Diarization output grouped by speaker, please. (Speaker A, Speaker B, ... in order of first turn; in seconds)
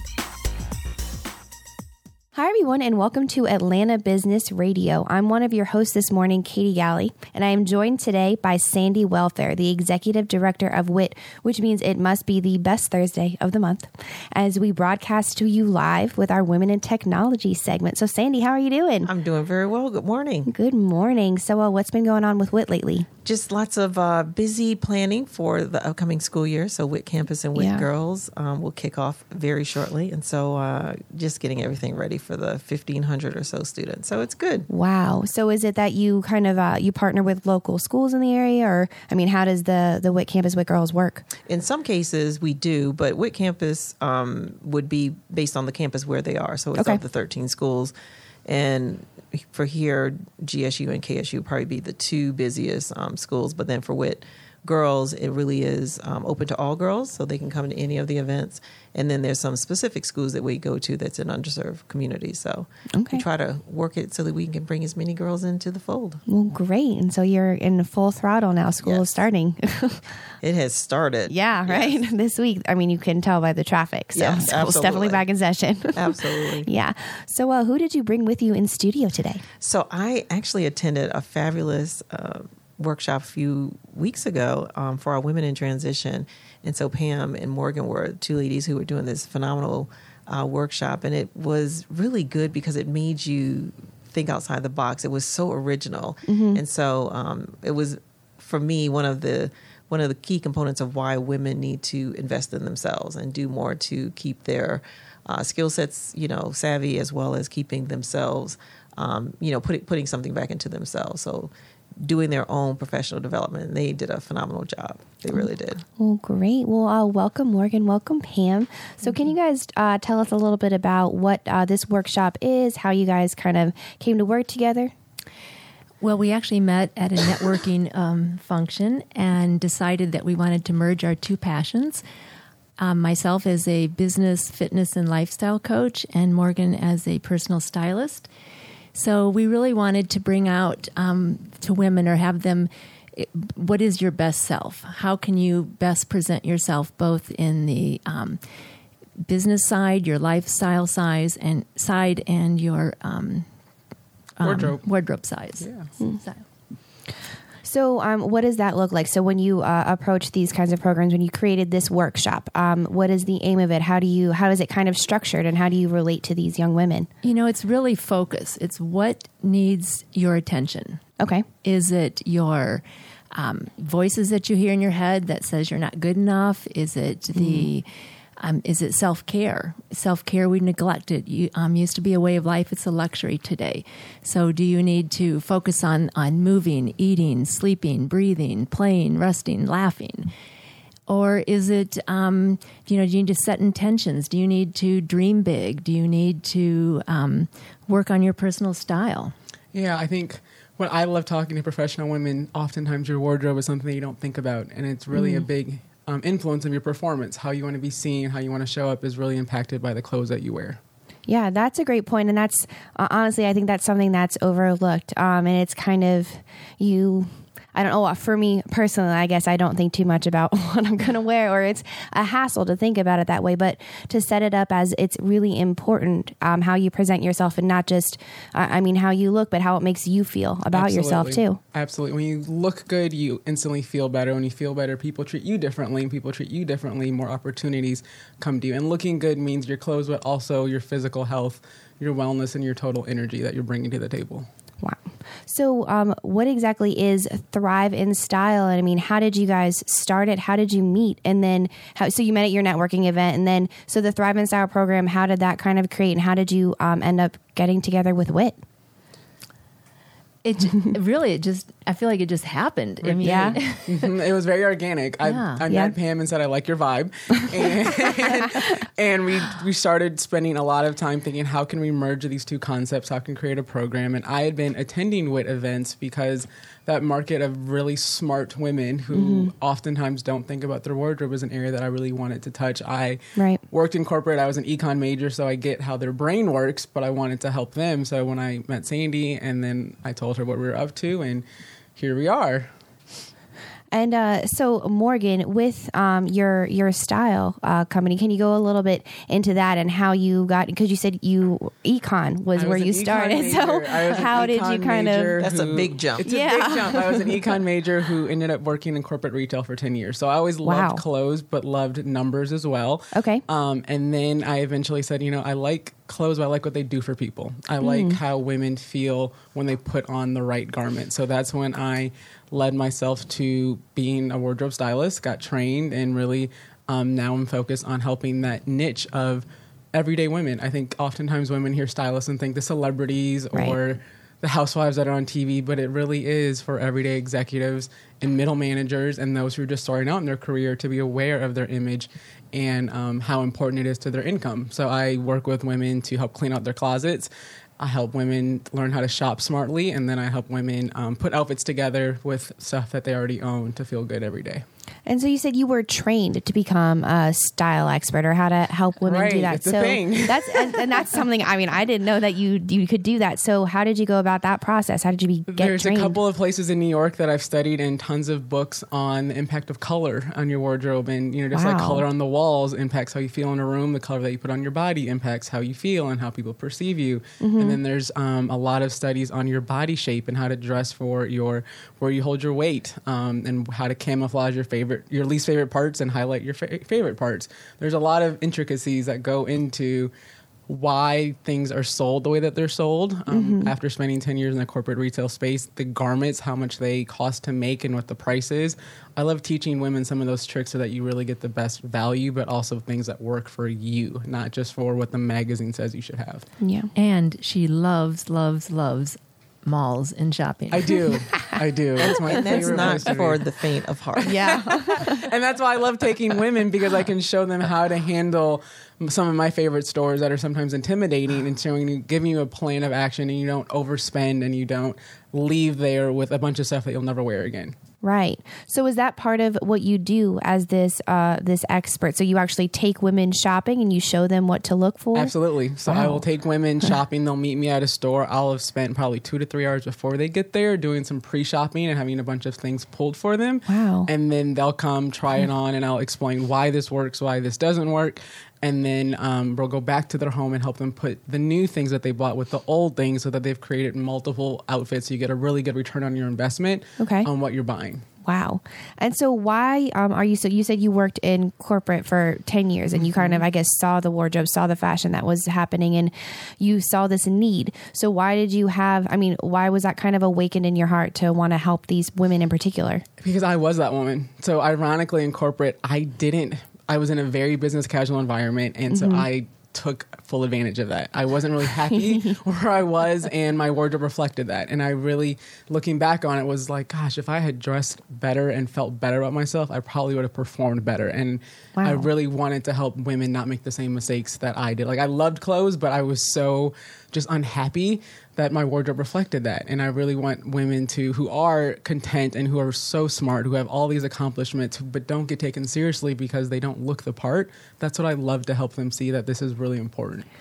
Speaker A: 2.3-19.1, 20.5-23.1, 27.6-27.9, 34.7-41.2, 63.0-63.2, 66.3-70.0, 71.3-79.4, 96.3-96.6, 116.0-124.9, 157.6-167.1, 171.2-171.4, 177.3-177.7, 205.1-205.4, 211.3-231.6, 244.8-258.6, 263.2-263.6, 279.1-279.5, 283.4-283.6, 293.9-305.4, 306.2-307.4, 310.6-311.0, 313.1-313.4, 317.8-318.2, 355.1-366.2, 371.5-372.0, 377.4-377.8, 393.3-393.7, 406.6-406.9, 414.2-415.2, 428.0-435.3, 435.8-436.2, 443.7-444.1, 457.0-457.3, 458.2-473.0, 478.9-479.2, 491.8-492.1
Speaker B: 19.1-20.5, 23.2-34.7, 41.5-47.9, 48.5-66.2, 70.4-72.0, 74.1-75.2, 75.9-76.7, 79.6-115.8, 305.4-307.0, 411.9-414.6
Speaker C: 126.0-132.0, 132.8-138.3, 138.9-148.4, 149.2-153.5, 154.4-156.4, 167.2-171.0, 171.6-177.9, 178.4-190.3, 191.1-199.3, 260.4-264.1, 265.2-265.6, 406.9-411.1
Speaker D: 154.4-154.8, 155.6-155.9, 199.7-210.8, 230.7-244.5, 263.0-291.4, 291.9-292.7, 302.5-354.6, 359.0-361.2, 365.5-390.1, 390.7-406.4, 410.7-413.5, 414.2-427.8, 435.1-458.1, 462.9-463.4, 473.2-510.2